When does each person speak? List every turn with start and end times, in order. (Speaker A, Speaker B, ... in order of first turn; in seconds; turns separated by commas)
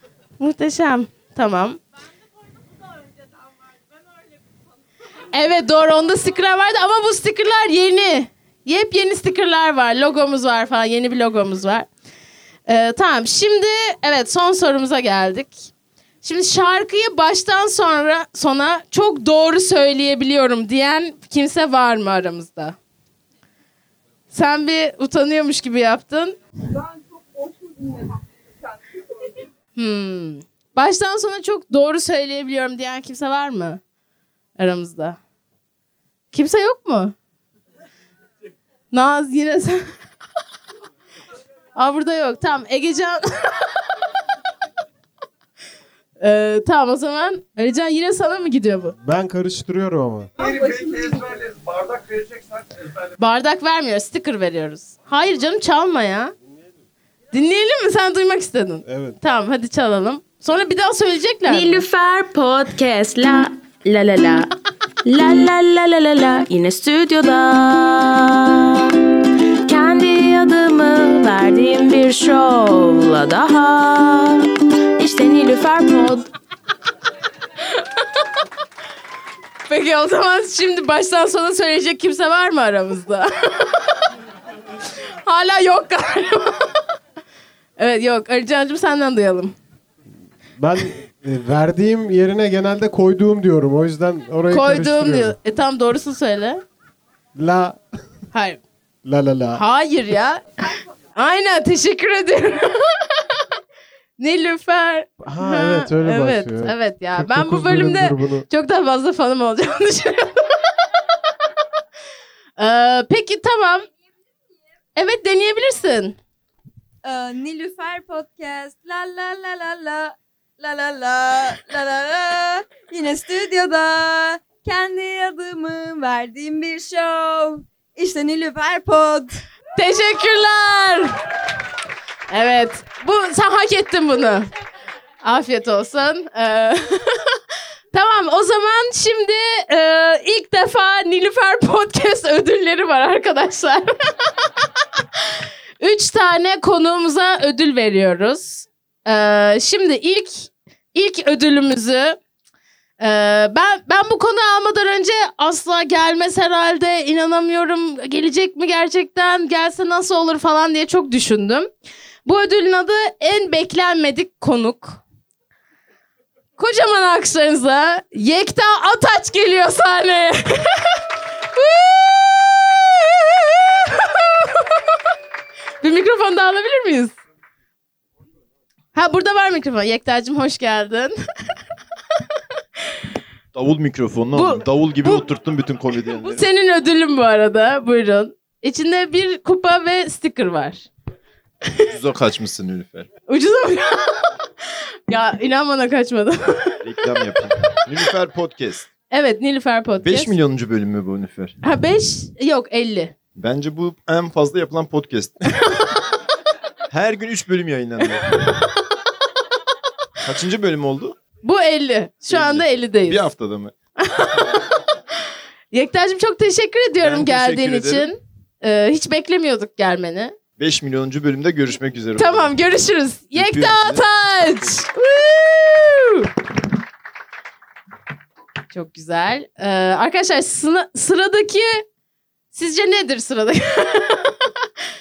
Speaker A: 0.4-1.8, Speaker A: 5.3-11.9, Speaker A: 12.7-15.6, Speaker A: 16.2-22.8, Speaker A: 24.3-26.4, Speaker A: 29.8-33.8, Speaker A: 34.6-35.2, Speaker A: 36.3-37.1, Speaker A: 38.9-39.9, Speaker A: 41.8-43.9, Speaker A: 46.2-49.0, Speaker B: 49.0-50.3, Speaker A: 53.2-56.4, Speaker A: 57.3-61.9, Speaker B: 58.9-59.2, Speaker C: 61.5-64.5, Speaker C: 65.0-69.0, Speaker C: 69.7-76.3, Speaker A: 79.7-83.9, Speaker A: 85.2-86.7, Speaker A: 87.8-89.5, Speaker B: 90.6-95.4, Speaker A: 94.5-96.6, Speaker B: 97.3-97.8, Speaker A: 98.3-98.6, Speaker B: 99.0-99.6, Speaker A: 99.5-100.6, Speaker A: 101.2-103.3, Speaker A: 104.2-110.8, Speaker B: 105.2-108.5, Speaker A: 112.6-113.9, Speaker A: 115.0-116.2, Speaker D: 117.0-129.4, Speaker A: 129.8-131.2, Speaker A: 132.3-134.5, Speaker A: 135.2-137.4, Speaker A: 137.9-144.4, Speaker A: 145.2-152.2, Speaker A: 153.0-161.7, Speaker A: 162.3-165.0, Speaker A: 166.6-170.9, Speaker A: 171.6-174.7, Speaker A: 175.8-177.1, Speaker A: 178.9-181.2, Speaker E: 183.5-186.4, Speaker A: 184.3-185.3, Speaker A: 186.1-190.9, Speaker E: 191.9-193.1, Speaker A: 193.3-194.3, Speaker A: 195.1-197.3, Speaker E: 196.8-198.9, Speaker A: 199.1-200.3, Speaker E: 200.0-201.6, Speaker A: 201.6-203.1, Speaker E: 203.4-205.5, Speaker E: 206.9-208.3, Speaker E: 210.2-211.2, Speaker A: 211.4-213.3, Speaker E: 212.3-213.7, Speaker A: 214.0-214.8, Speaker A: 215.7-220.3, Speaker E: 217.0-218.1, Speaker E: 220.6-222.6, Speaker A: 222.2-226.3, Speaker E: 223.3-224.8, Speaker A: 228.7-231.8, Speaker A: 232.5-234.5